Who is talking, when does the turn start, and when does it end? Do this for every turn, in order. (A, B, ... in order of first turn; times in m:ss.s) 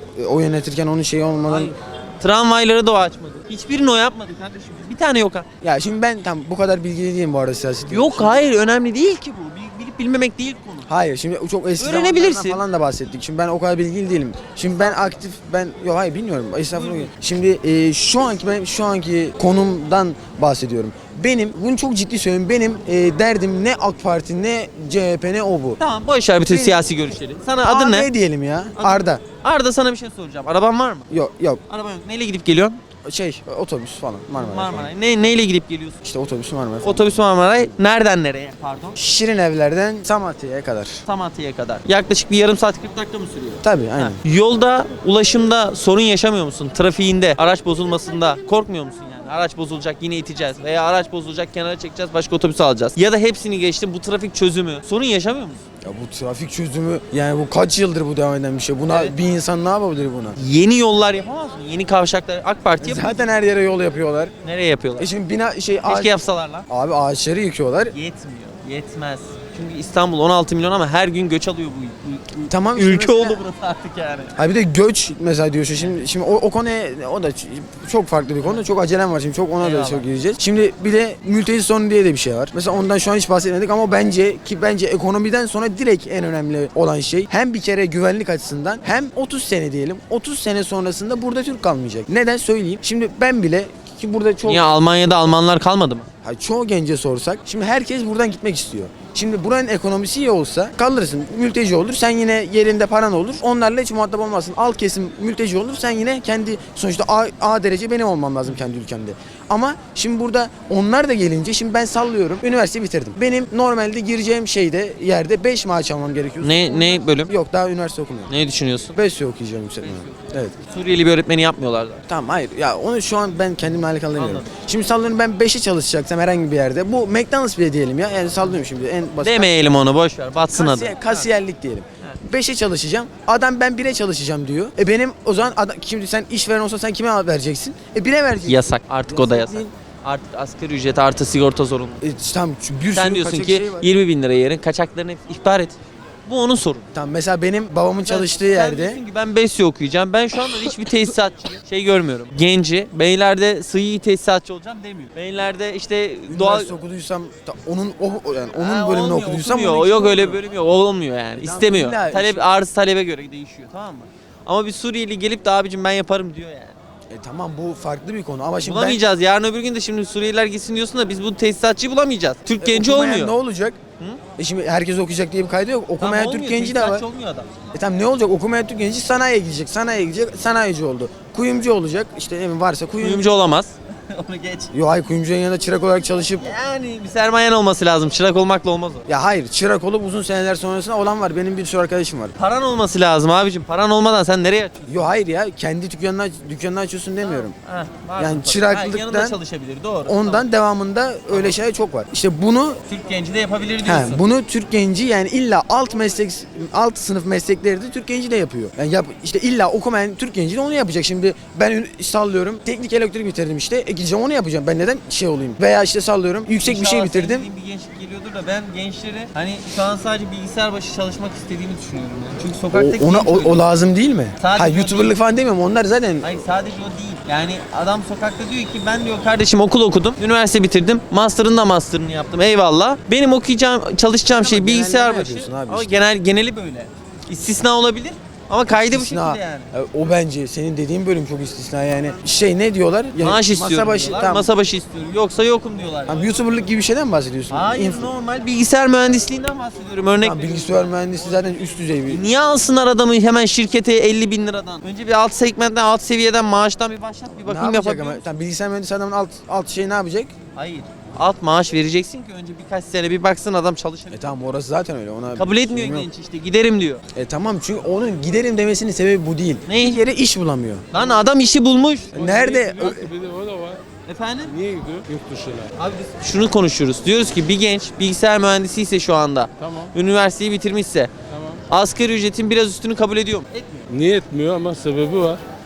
0:00.1-0:01.7 A
0:01.5-0:05.4 B
0:05.6-0:08.4 A
0:07.9-0:10.9 B
0:10.9-0:25.8 A
0:11.8-0:12.6 B
0:14.8-0:15.2 B
0:16.7-0:17.1 B
0:25.8-0:28.1 B
0:26.4-0:26.8 A
0:27.6-0:29.2 A
0:28.8-0:31.1 B
0:31.1-0:31.6 A
0:31.7-0:32.8 B
0:33.0-0:34.9 A
0:34.3-0:36.0 B
0:36.0-0:37.8 A
0:36.8-0:39.0 B
0:39.0-0:41.0 A
0:41.0-0:55.6 B
0:43.6-0:44.2 A
0:55.8-1:00.4 A
0:58.9-0:59.2 B
1:00.4-1:03.3 B
1:02.8-1:04.3 A
1:04.4-1:05.1 B
1:05.0-1:06.1 A
1:05.8-1:06.6 B
1:06.7-1:07.9 A
1:07.9-1:14.3 B
1:12.5-1:13.4 A
1:14.3-1:34.7 A
1:19.6-1:20.1 B
1:34.4-1:36.1 B
1:36.2-1:58.3 A
1:56.4-1:57.3 B
1:58.3-1:59.0 B
1:58.9-2:00.5 A
1:59.8-2:02.0 B
2:02.1-2:09.5 A
2:04.2-2:04.5 B
2:09.2-2:11.3 B
2:10.5-2:19.7 A
2:18.4-2:22.0 B
2:22.0-2:23.9 A
2:22.9-2:26.9 B
2:26.9-2:29.0 A
2:28.0-2:36.7 B
2:36.3-2:40.4 A
2:38.6-2:46.7 B
2:41.4-2:42.5 A
2:47.1-2:49.0 A
2:48.6-2:53.3 B
2:52.6-2:53.8 A
2:54.4-2:57.0 A
2:56.0-2:57.5 B
2:57.7-3:03.2 A
3:03.0-3:04.7 B
3:04.7-3:06.5 A
3:06.4-3:09.0 B
3:09.1-3:12.3 A
3:12.4-3:15.1 B
3:14.9-3:17.5 A
3:17.2-3:20.4 B
3:18.2-3:19.4 A
3:20.0-3:22.8 A
3:21.3-3:21.6 B
3:22.9-3:24.2 B
3:23.8-3:37.5 A
3:36.6-3:43.6 B
3:42.7-3:46.3 A
3:44.4-3:45.2 B
3:46.2-3:59.7 B
3:54.3-3:56.0 A
3:58.7-4:04.5 A
4:03.2-4:06.3 B
4:06.1-4:08.1 A
4:07.5-4:10.8 B
4:10.2-4:12.2 A
4:12.1-4:18.3 B
4:17.4-4:20.3 A
4:20.5-4:24.3 B
4:24.1-4:26.1 A
4:25.3-4:27.0 B
4:27.1-4:30.9 A
4:29.7-4:30.0 B
4:30.9-4:32.1 B
4:32.1-4:33.1 A
4:32.1-4:33.8 C
4:34.0-4:34.5 B
4:34.4-4:35.7 C
4:35.8-4:41.1 B
4:39.6-4:39.9 C
4:41.3-4:41.6 C
4:41.7-4:43.8 B
4:43.9-4:45.4 C